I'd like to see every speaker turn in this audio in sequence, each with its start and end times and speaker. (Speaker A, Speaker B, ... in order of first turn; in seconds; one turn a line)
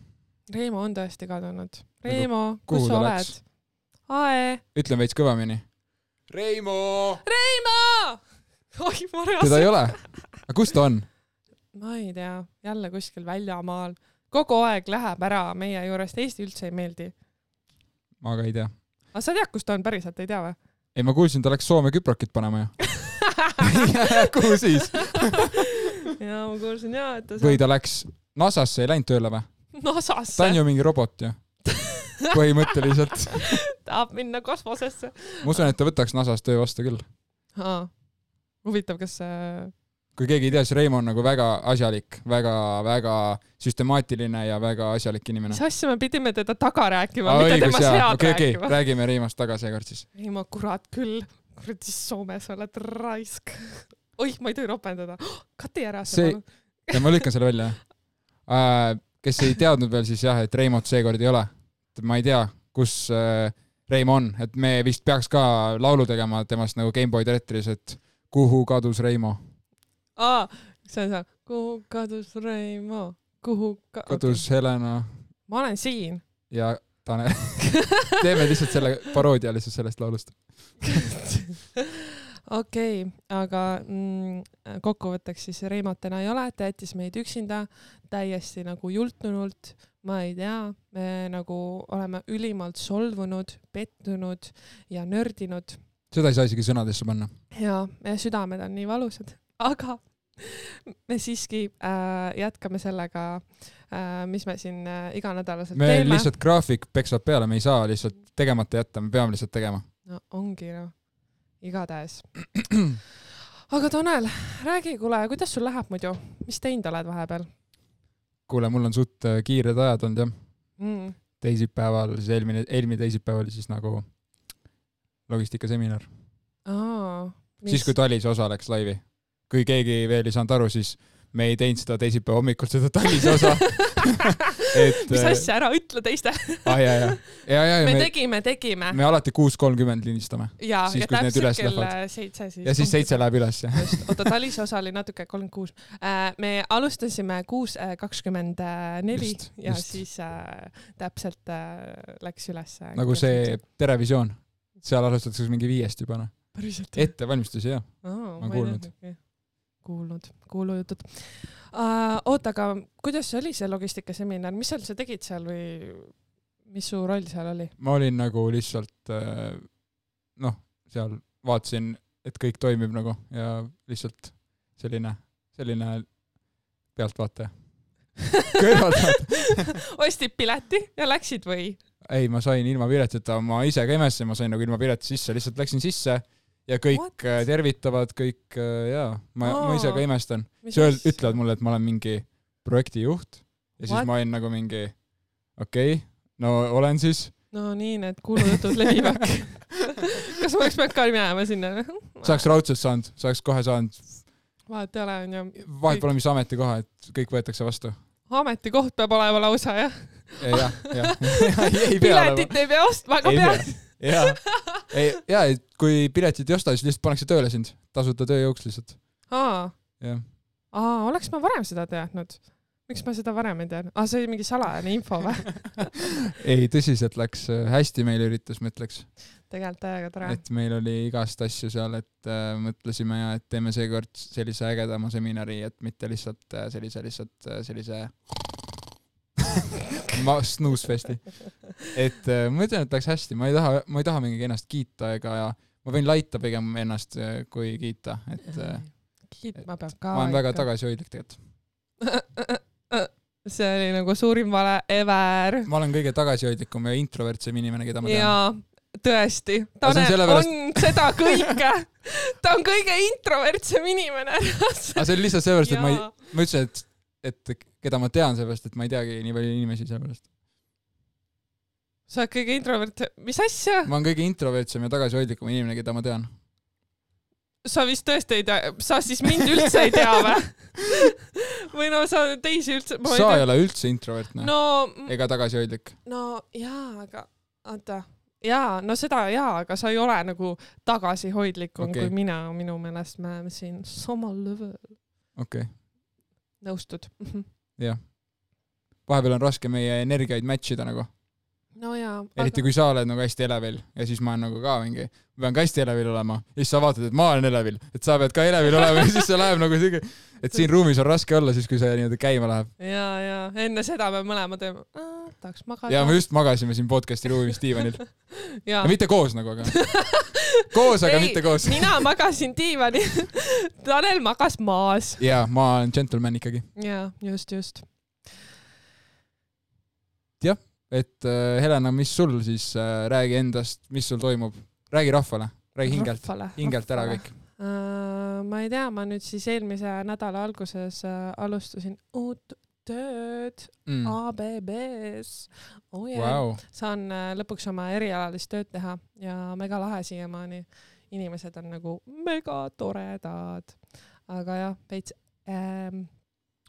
Speaker A: 0.5-3.4
Speaker B: 2.1-3.4
Speaker A: 4.0-4.6
Speaker B: 4.7-5.7
Speaker B: 6.3-7.2
Speaker A: 7.2-10.2
Speaker B: 9.4-11.1
Speaker A: 11.7-17.1
Speaker B: 18.2-18.7
Speaker A: 19.1-20.6
Speaker B: 20.9-22.8
Speaker A: 22.9-27.6
Speaker B: 23.6-25.7
Speaker B: 27.4-29.5
Speaker A: 29.8-30.6
Speaker B: 30.4-31.4
Speaker A: 31.7-32.4
Speaker B: 32.3-33.6
Speaker A: 33.3-35.7
Speaker B: 35.4-37.0
Speaker A: 37.5-37.9
Speaker A: 38.6-39.7
Speaker B: 40.1-45.6
Speaker A: 45.5-48.8
Speaker B: 47.2-50.0
Speaker A: 50.2-57.3
Speaker B: 56.1-57.8
Speaker B: 58.4-69.4
Speaker A: 70.2-74.5
Speaker B: 74.1-75.1
Speaker A: 75.5-76.2
Speaker B: 76.5-80.4
Speaker A: 77.6-78.1
Speaker A: 80.8-95.8
Speaker B: 96.1-97.3
Speaker A: 97.5-106.3
Speaker B: 105.8-109.9
Speaker A: 110.1-111.0
Speaker A: 111.6-112.5
Speaker A: 113.7-117.5
Speaker B: 118.5-120.3
Speaker A: 120.8-121.2
Speaker B: 121.4-124.1
Speaker B: 125.3-126.1
Speaker A: 126.7-127.9
Speaker B: 127.7-135.5
Speaker A: 133.2-139.0
Speaker B: 136.7-138.3
Speaker B: 138.9-141.9
Speaker A: 140.6-153.6
Speaker B: 142.6-144.3
Speaker B: 149.1-150.0
Speaker B: 152.9-158.9
Speaker A: 156.5-157.2
Speaker A: 158.0-166.1
Speaker A: 166.7-167.7
Speaker B: 167.8-169.8
Speaker B: 170.3-176.2
Speaker B: 176.9-177.5
Speaker A: 178.3-181.8
Speaker B: 178.6-179.7
Speaker B: 182.1-195.0
Speaker A: 186.9-187.4
Speaker A: 189.4-191.4
Speaker A: 193.8-194.1
Speaker B: 195.5-197.4
Speaker A: 197.5-202.5
Speaker B: 202.2-204.2
Speaker A: 204.7-206.1
Speaker B: 205.6-208.0
Speaker A: 208.3-214.8
Speaker B: 210.4-212.6
Speaker B: 213.2-219.0
Speaker A: 219.3-220.0
Speaker B: 220.0-220.2
Speaker A: 220.7-225.9
Speaker B: 226.4-229.1
Speaker A: 229.5-230.4
Speaker B: 230.2-238.7
Speaker B: 240.1-248.9
Speaker A: 248.5-250.7
Speaker B: 249.6-251.4
Speaker A: 252.0-255.7
Speaker B: 255.7-258.4
Speaker A: 258.0-266.1
Speaker B: 259.8-261.5
Speaker B: 264.9-270.3
Speaker A: 272.1-273.9
Speaker B: 273.9-276.3
Speaker A: 277.6-283.5
Speaker B: 283.1-285.9
Speaker A: 284.4-285.1
Speaker A: 286.1-294.9
Speaker B: 291.8-292.1
Speaker B: 295.4-295.7
Speaker A: 296.6-297.5
Speaker B: 297.8-298.2
Speaker B: 299.1-301.1
Speaker A: 301.8-302.6
Speaker B: 302.4-312.7
Speaker A: 312.8-316.2
Speaker B: 315.9-318.2
Speaker A: 318.2-318.9
Speaker B: 318.8-319.8
Speaker A: 319.6-325.2
Speaker B: 320.7-322.1
Speaker B: 325.2-326.7
Speaker A: 326.8-328.3
Speaker B: 330.4-337.4
Speaker A: 335.9-356.1
Speaker B: 343.9-344.2
Speaker B: 346.1-346.6